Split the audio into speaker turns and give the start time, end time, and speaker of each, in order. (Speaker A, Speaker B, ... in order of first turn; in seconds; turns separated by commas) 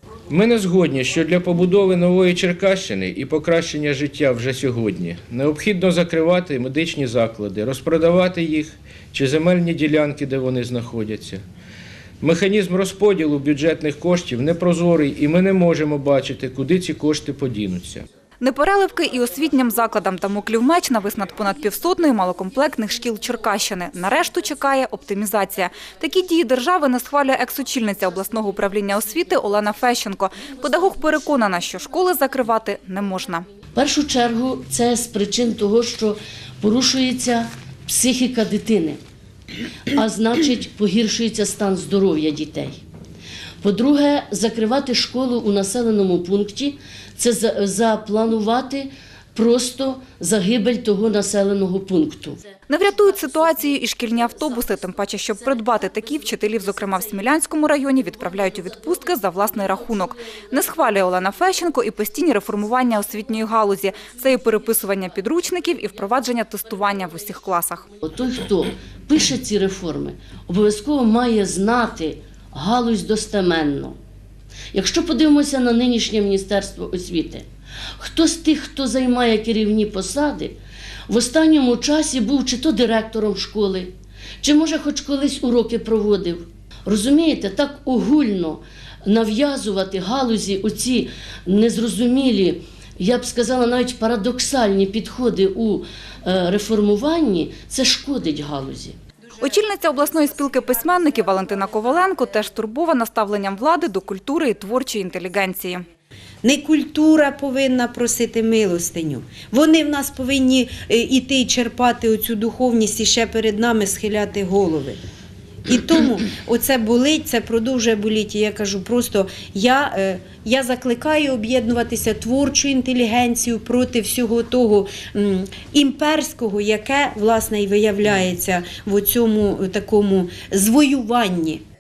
Speaker A: 0.3-11.4, Speaker A: 12.2-18.1, Speaker B: 18.4-33.5, Speaker C: 33.8-39.0, Speaker C: 39.9-42.8, Speaker C: 43.6-52.4, Speaker B: 52.7-67.9, Speaker C: 68.0-74.0, Speaker C: 74.7-77.5, Speaker C: 78.0-80.6, Speaker C: 81.1-99.0, Speaker B: 99.4-105.8, Speaker D: 106.4-115.0, Speaker D: 115.7-131.6